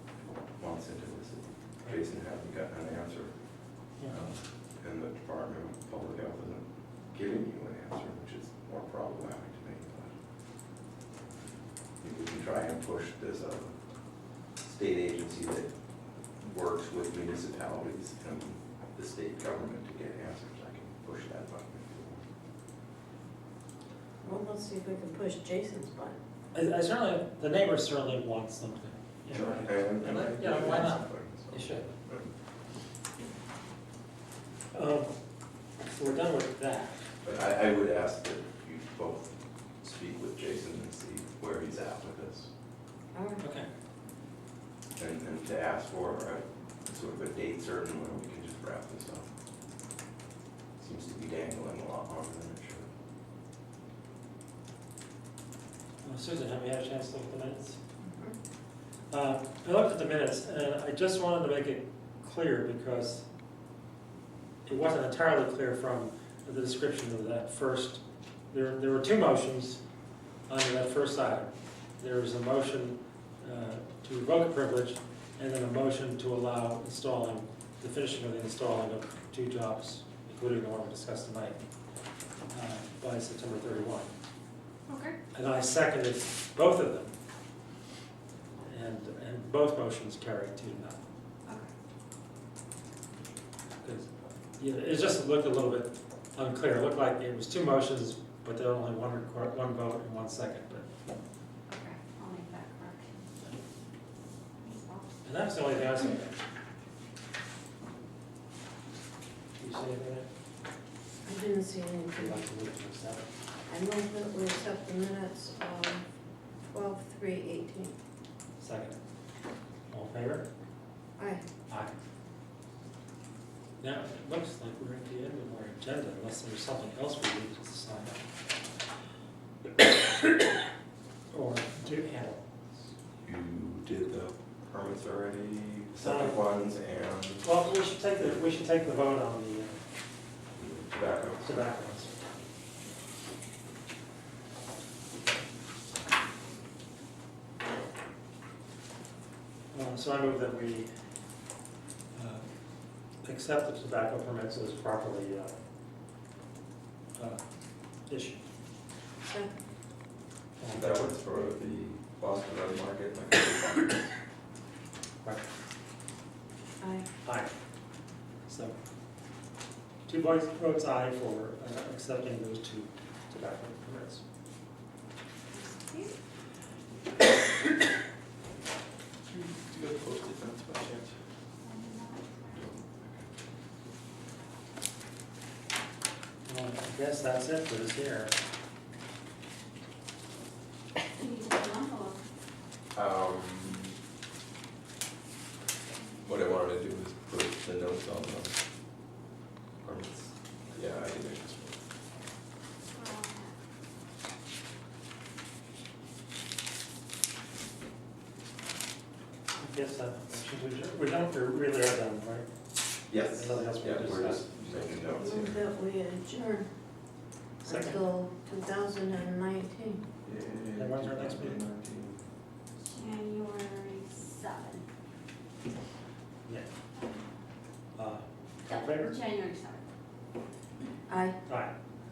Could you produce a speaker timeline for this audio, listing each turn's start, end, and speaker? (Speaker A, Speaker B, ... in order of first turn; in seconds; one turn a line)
Speaker A: 0.6-3.4
Speaker B: 4.0-4.2
Speaker A: 4.1-10.1
Speaker A: 12.0-13.8
Speaker A: 14.6-15.7
Speaker A: 16.4-22.2
Speaker C: 24.2-26.2
Speaker B: 26.5-31.9
Speaker A: 29.3-32.3
Speaker B: 34.7-35.1
Speaker B: 35.8-37.0
Speaker A: 37.2-42.5
Speaker C: 43.1-43.4
Speaker B: 43.4-43.7
Speaker A: 45.0-49.3
Speaker A: 50.8-52.9
Speaker B: 56.0-57.8
Speaker C: 58.0-58.4
Speaker B: 59.1-63.2
Speaker B: 64.7-69.8
Speaker B: 70.5-81.6
Speaker B: 82.5-84.1
Speaker D: 84.9-85.2
Speaker B: 85.3-87.1
Speaker B: 88.6-91.0
Speaker D: 91.5-91.7
Speaker B: 93.8-94.1
Speaker B: 94.6-100.9
Speaker D: 101.7-103.6
Speaker D: 104.6-105.1
Speaker B: 105.2-106.4
Speaker B: 109.6-110.3
Speaker C: 111.2-112.4
Speaker B: 112.2-113.2
Speaker C: 113.7-116.0
Speaker C: 116.7-118.0
Speaker B: 118.6-119.0
Speaker B: 119.9-120.5
Speaker C: 121.2-121.4
Speaker B: 121.7-122.0
Speaker B: 123.8-128.2
Speaker B: 129.8-130.3
Speaker B: 131.3-132.4
Speaker A: 133.2-137.5
Speaker B: 136.0-136.4
Speaker B: 137.4-139.8
Speaker A: 140.6-141.6
Speaker B: 141.4-142.1
Speaker B: 149.7-150.9
Speaker B: 152.1-152.5
Speaker B: 153.2-155.6
Speaker B: 157.2-157.4
Speaker B: 158.1-158.4
Speaker C: 159.2-159.6
Speaker B: 160.6-161.2
Speaker A: 160.7-164.1
Speaker C: 166.8-167.1
Speaker B: 167.2-167.5
Speaker B: 168.5-168.8
Speaker B: 170.1-174.2
Speaker D: 175.5-176.2
Speaker A: 179.3-181.1
Speaker D: 181.6-182.7
Speaker A: 182.5-183.3
Speaker B: 186.4-188.3
Speaker D: 191.1-192.2
Speaker A: 192.9-193.9
Speaker A: 196.2-198.6
Speaker A: 199.8-201.8
Speaker D: 202.9-203.6
Speaker B: 209.6-212.5
Speaker A: 213.1-215.6
Speaker B: 213.1-215.0
Speaker C: 215.2-216.7
Speaker B: 217.6-218.0
Speaker C: 217.7-220.0
Speaker A: 220.2-222.2
Speaker B: 220.8-221.6
Speaker D: 222.8-224.8
Speaker D: 226.9-227.2
Speaker B: 228.0-229.2
Speaker D: 228.7-229.8
Speaker C: 231.1-231.4
Speaker B: 231.5-231.7